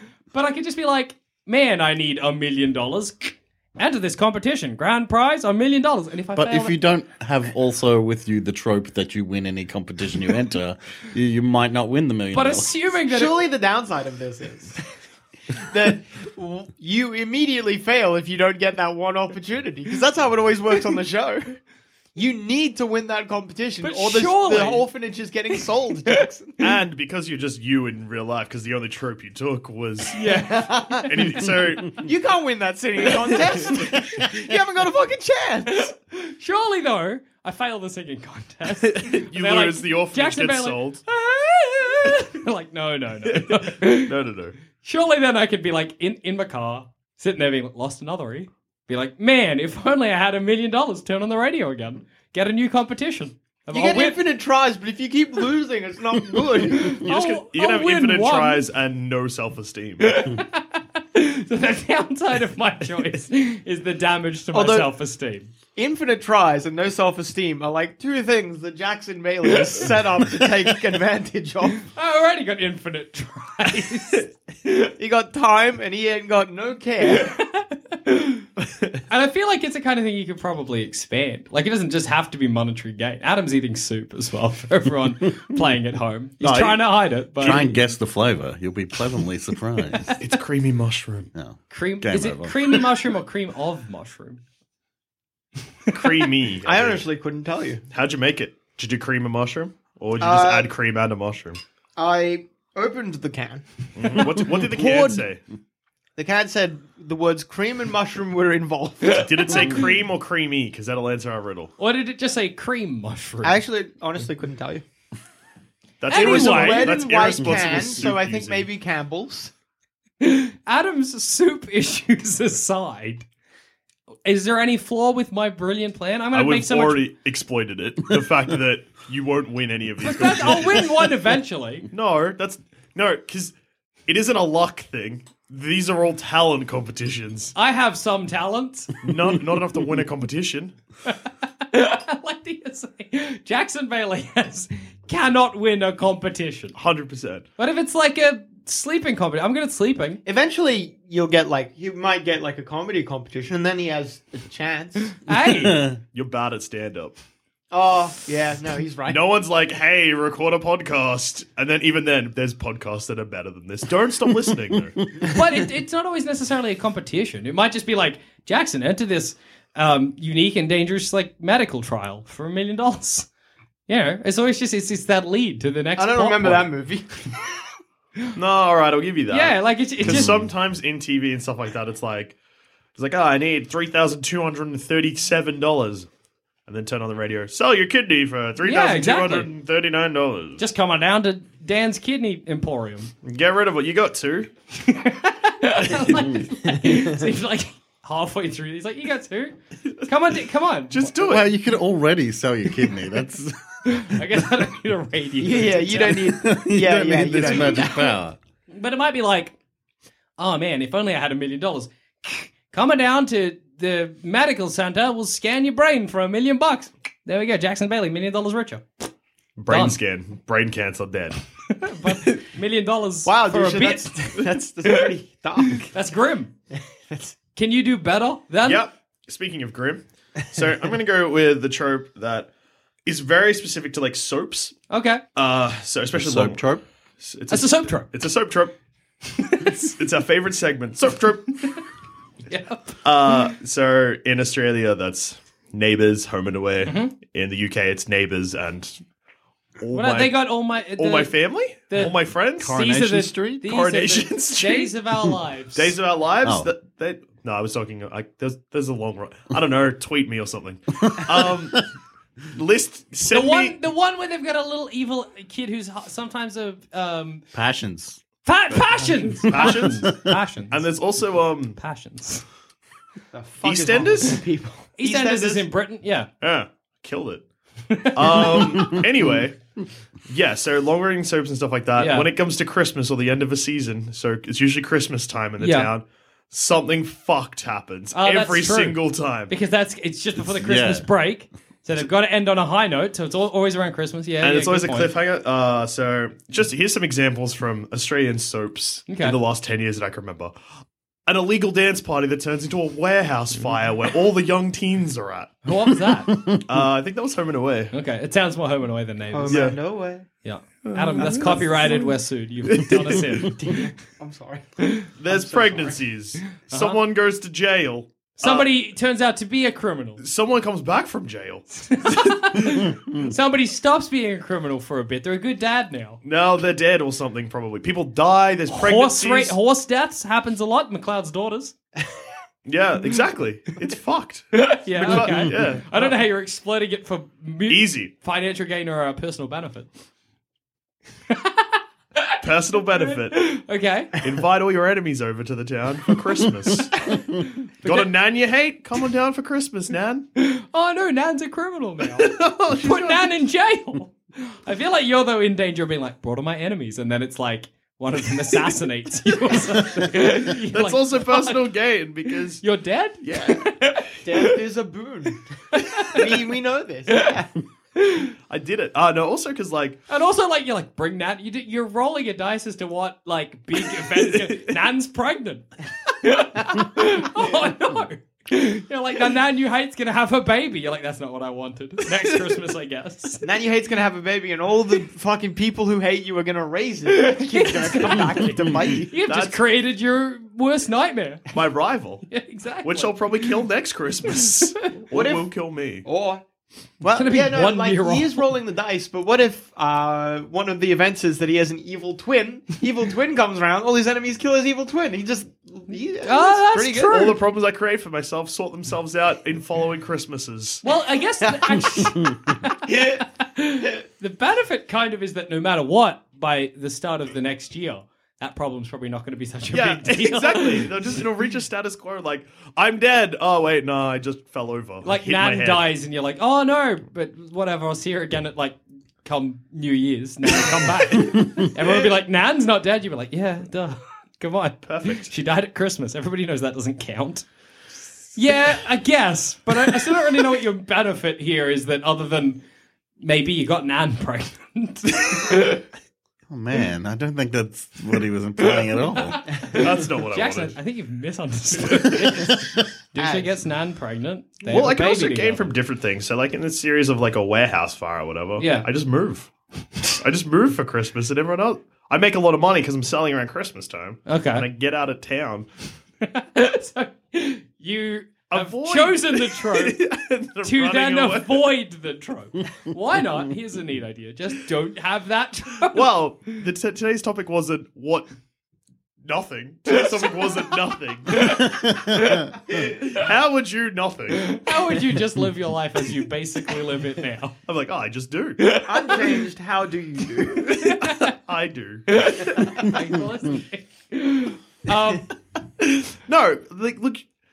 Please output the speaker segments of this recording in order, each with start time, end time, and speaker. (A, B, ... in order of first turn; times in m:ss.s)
0:00.3-0:06.8 A
0:06.4-0:12.7 B
0:12.3-0:13.5 A
0:13.1-0:14.8 C
0:15.6-0:21.6 C
0:22.2-0:26.7 C
0:23.8-0:24.9 A
0:26.6-0:30.2 D
0:30.2-0:31.1 A
0:30.3-0:31.1 C
0:31.1-0:32.1 D
0:32.0-0:35.9 C
0:35.8-0:44.1 A
0:38.8-0:41.0 D
0:43.3-0:44.6 D
0:44.8-0:54.2 A
0:53.7-0:57.0 C
0:56.7-0:58.7 A
0:57.0-1:00.3 D
1:00.0-1:05.5 A
1:04.5-1:04.9 C
1:05.8-1:11.9 C
1:11.9-1:14.3 A
1:15.0-1:17.4 C
1:17.2-1:18.5 A
1:19.1-1:27.7 A
1:26.4-1:30.1 B
1:27.4-1:27.9 D
1:30.0-1:30.2 A
1:30.2-1:31.3 D
1:31.3-1:32.9 B
1:31.7-1:34.4 A
1:35.9-1:37.0 D
1:36.7-1:37.8 C
1:37.9-1:41.6 D
1:40.2-1:40.7 C
1:42.0-1:45.2 C
1:44.0-1:45.4 D
1:46.2-1:49.7 C
1:49.2-1:51.7 D
1:51.8-1:53.6 A
1:53.4-1:54.8 C
1:56.0-1:58.7 D
1:56.1-1:57.0 A
1:56.1-1:59.5 C
2:00.2-2:03.3 A
2:04.2-2:07.0 A
2:06.3-2:10.9 D
2:10.0-2:11.9 A
2:11.9-2:13.6 D
2:14.1-2:17.6 D
2:17.6-2:18.9 A
2:19.0-2:20.7 D
2:21.7-2:26.8 A
2:26.8-2:27.4 D
2:27.6-2:30.2 A
2:30.2-2:35.2 C
2:35.2-2:35.9 A
2:35.3-2:36.0 B
2:36.1-2:37.2 D
2:37.7-2:39.2 C
2:39.1-2:45.1 D
2:45.2-2:53.3 A
2:53.9-2:56.7 A
2:56.0-2:57.4 C
2:58.4-3:02.4 D
2:59.3-3:00.3 A
3:00.0-3:00.5 B
3:03.0-3:06.1 D
3:06.7-3:10.6 D
3:08.6-3:09.5 A
3:10.6-3:13.1 A
3:13.2-3:14.5 D
3:14.8-3:21.1 A
3:20.9-3:21.5 D
3:21.2-3:23.6 B
3:23.9-3:26.2 A
3:25.4-3:28.2 C
3:26.1-3:28.4 B
3:27.5-3:27.8 A
3:28.7-3:29.6 A
3:30.4-3:38.9 A
3:39.6-3:41.4 D
3:39.7-3:40.0 A
3:41.7-3:44.4 A
3:43.2-3:45.9 C
3:45.8-3:46.5 A
3:46.7-3:47.4 C
3:47.6-3:48.9 A
3:48.6-3:52.5 D
3:53.1-3:54.8 D
3:54.9-3:55.2 A
3:55.4-3:56.7 D
3:56.1-3:56.8 B
3:57.2-3:58.7 D
3:57.5-3:58.1 A
3:59.4-3:59.9 A
3:59.8-4:01.6 D
4:02.5-4:03.1 A
4:03.0-4:09.0 D
4:06.9-4:07.1 A
4:09.8-4:12.8 D
4:09.9-4:11.3 A
4:11.9-4:15.9 A
4:12.6-4:13.6 B
4:13.6-4:14.9 D
4:15.8-4:21.9 D
4:16.4-4:16.7 B
4:22.5-4:23.8 D
4:23.3-4:27.4 A
4:27.5-4:28.2 B
4:28.4-4:30.9 A
4:28.8-4:30.1 D
4:29.6-4:30.1 B
4:30.7-4:31.8 D
4:31.8-4:32.4 A
4:33.3-4:35.7 C
4:33.6-4:34.4 D
4:35.0-4:36.3 A
4:36.4-4:37.4 D
4:37.9-4:38.9 A
4:38.1-4:39.6 D
4:40.3-4:49.5 D
4:42.0-4:42.3 A
4:45.6-4:45.9 A
4:48.1-4:55.1 A
4:50.4-4:51.1 B
4:54.4-5:00.5 D
4:59.1-4:59.4 A
5:01.3-5:05.6 D
5:05.6-5:06.4 A
5:06.3-5:06.6 B
5:06.6-5:07.9 D
5:07.9-5:09.6 A
5:09.3-5:10.3 C
5:09.5-5:09.8 D
5:10.4-5:13.6 A
5:10.9-5:11.6 D
5:11.2-5:12.0 C
5:12.7-5:13.2 D
5:13.4-5:14.7 C
5:15.2-5:18.7 D
5:15.3-5:16.0 C
5:16.7-5:17.0 A
5:18.4-5:20.2 A
5:20.2-5:22.7 D
5:21.9-5:26.2 A
5:26.2-5:29.6 D
5:28.7-5:31.8 A
5:32.7-5:36.2 D
5:34.7-5:39.9 A
5:35.3-5:35.6 B
5:37.7-5:38.1 D
5:41.3-5:42.4 A
5:42.4-5:43.5 D
5:43.0-5:44.1 A
5:44.2-5:47.0 D
5:47.8-5:48.1 A
5:47.8-5:50.3 D
5:50.4-6:01.6 A
5:52.2-5:53.3 D
6:00.7-6:02.6 D
6:02.6-6:04.1 A
6:03.2-6:03.8 D
6:04.2-6:05.4 C
6:05.7-6:06.2 A
6:06.0-6:07.5 C
6:08.0-6:08.3 A
6:08.5-6:10.0 D
6:10.1-6:23.4 A
6:23.4-6:29.1 C
6:27.1-6:31.5 A
6:29.3-6:29.6 D
6:31.5-6:32.3 D
6:32.3-6:33.5 A
6:32.8-6:36.0 D
6:35.1-6:35.5 C
6:36.0-6:36.4 C
6:37.0-6:47.3 C
6:37.1-6:38.4 A
6:46.2-6:47.4 A
6:47.1-6:50.8 D
6:50.8-7:00.9 A
6:52.9-6:53.2 C
6:59.7-7:05.9 D
7:05.0-7:17.5 A
7:14.8-7:15.3 D
7:18.4-7:22.6 A
7:23.2-7:25.8 A
7:26.5-7:29.6 B
7:29.2-7:35.7 A
7:29.7-7:30.8 D
7:33.2-7:33.4 C
7:34.6-7:39.5 D
7:38.6-7:38.9 A
7:40.1-7:45.7 D
7:44.3-7:44.7 A
7:46.2-7:50.0 A
7:48.5-7:51.7 D
7:50.6-7:56.1 A
7:55.9-7:58.3 D
7:59.2-8:01.6 D
8:01.9-8:02.2 B
8:03.0-8:04.6 D
8:04.5-8:07.6 A
8:07.7-8:08.8 D
8:08.8-8:10.9 C
8:10.7-8:11.3 A
8:11.1-8:12.5 D
8:12.3-8:15.3 A
8:16.3-8:17.2 D